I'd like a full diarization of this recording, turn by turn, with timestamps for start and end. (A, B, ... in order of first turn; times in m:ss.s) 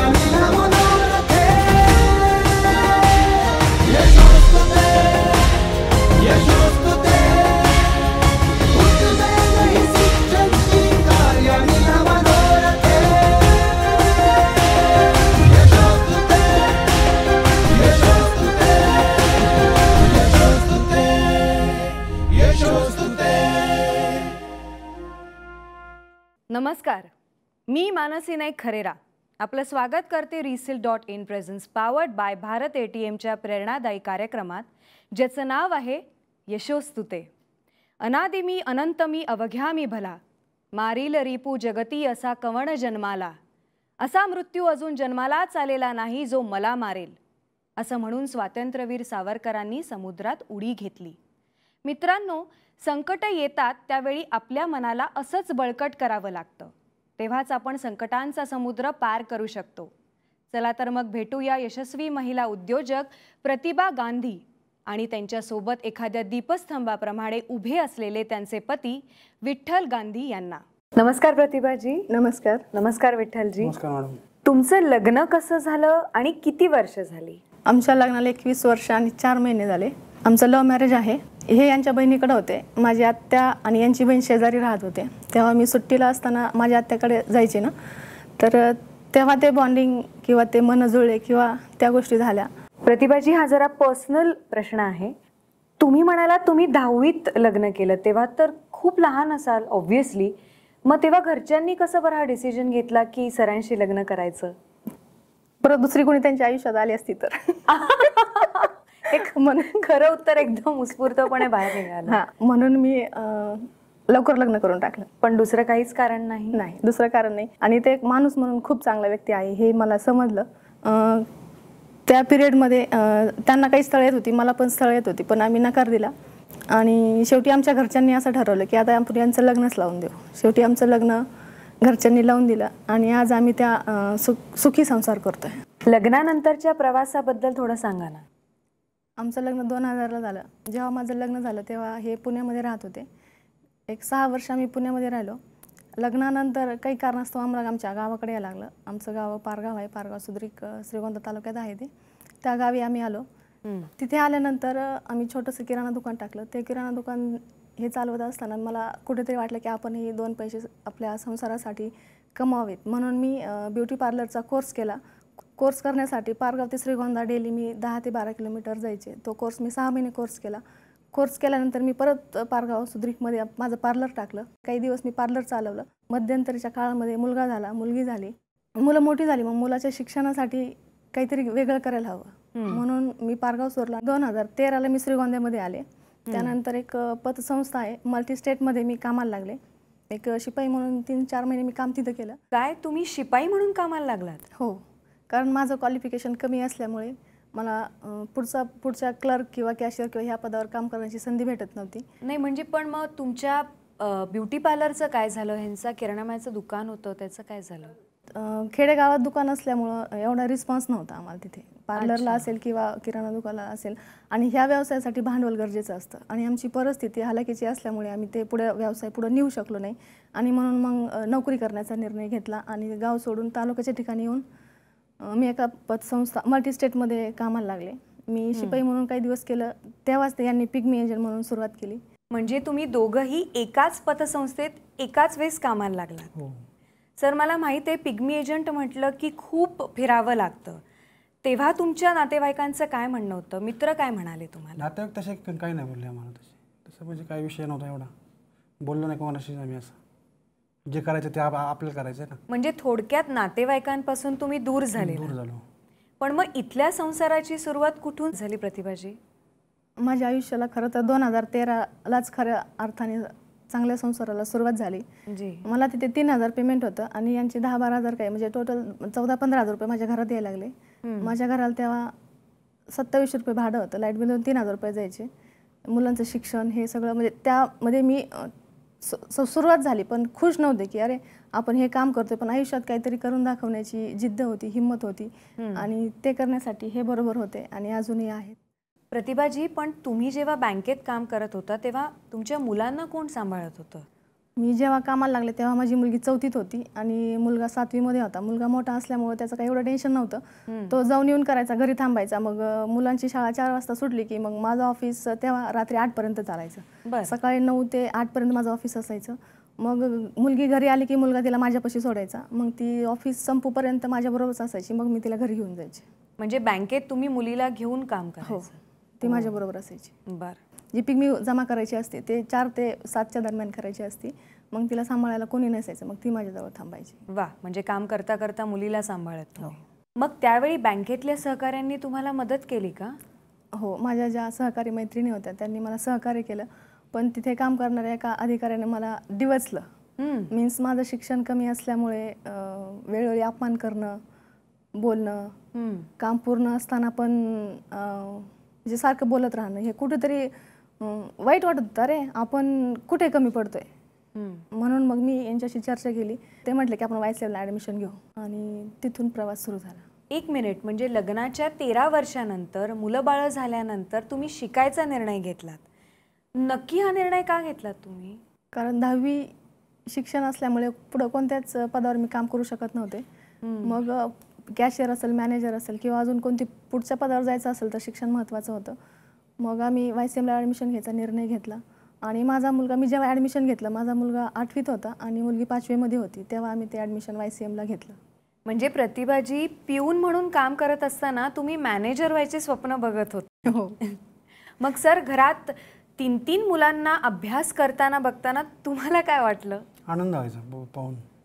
0:00.4-0:00.9 A
0:26.5-0:27.1 A
0:27.7-0:37.3 A
0:38.0-0:40.2 A
0:40.7-0:43.4 A
0:44.0-0:47.2 A
0:47.8-0:51.2 A
0:51.8-0:59.9 A
1:00.5-1:12.1 A
1:12.1-1:12.6 B
1:12.7-1:13.7 A
1:13.6-1:14.2 C
1:14.4-1:17.4 A
1:17.7-1:27.7 B
1:28.4-1:32.5 B
1:32.8-1:35.1 A
1:35.8-1:40.3 A
1:40.8-1:44.5 A
1:45.6-1:47.6 B
1:47.7-1:52.2 A
1:49.1-1:49.9 B
1:52.0-1:55.1 B
1:55.2-1:56.6 A
1:56.5-2:01.3 B
2:02.1-2:06.1 B
2:06.7-2:11.2 B
2:11.8-2:15.5 B
2:15.8-2:18.2 A
2:19.2-2:23.0 B
2:23.9-2:25.4 B
2:26.0-2:31.9 B
2:32.4-2:33.2 B
2:33.6-2:33.9 A
2:34.0-2:45.0 B
2:45.6-2:50.6 B
2:51.1-3:09.6 B
3:02.5-3:02.8 A
3:06.3-3:06.5 A
3:10.1-3:12.4 B
3:12.5-3:14.4 A
3:15.3-3:22.0 B
3:22.2-3:27.9 A
3:28.3-3:44.4 B
3:31.9-3:32.5 A
3:45.2-3:52.0 B
3:48.5-3:48.8 A
3:52.3-3:56.3 A
3:56.3-3:56.6 C
3:57.2-4:00.8 A
4:01.4-4:04.8 A
4:04.8-4:08.1 C
4:08.8-4:10.0 C
4:10.9-4:12.4 C
4:12.5-4:15.4 A
4:15.0-4:15.6 C
4:16.2-4:19.2 A
4:20.0-4:25.0 B
4:25.3-4:25.7 A
4:25.6-4:32.1 B
4:31.0-4:31.3 A
4:32.9-4:35.3 B
4:35.9-4:48.6 B
4:45.6-4:45.9 A
4:49.1-4:54.0 A
4:54.6-5:16.0 B
5:00.7-5:01.0 A
5:07.0-5:07.3 A
5:16.4-5:19.6 A
5:18.4-5:18.7 B
5:19.2-5:20.1 B
5:20.3-5:20.6 A
5:20.9-5:27.2 B
5:27.3-5:33.2 A
5:33.7-5:39.8 B
5:40.2-5:40.5 A
5:40.5-5:44.2 B
5:45.0-5:45.5 B
5:45.7-5:46.1 A
5:46.2-5:53.9 B
5:54.3-5:54.6 A
5:54.7-6:00.0 B
6:00.3-6:05.8 A
6:06.5-6:08.4 A
6:08.7-6:09.5 B
6:10.1-6:13.2 B
6:13.6-6:14.0 A
6:13.8-6:19.0 B
6:19.6-6:28.2 B
6:28.6-6:34.2 A
6:33.6-6:34.0 B
6:34.8-6:39.8 A
6:40.1-6:41.2 C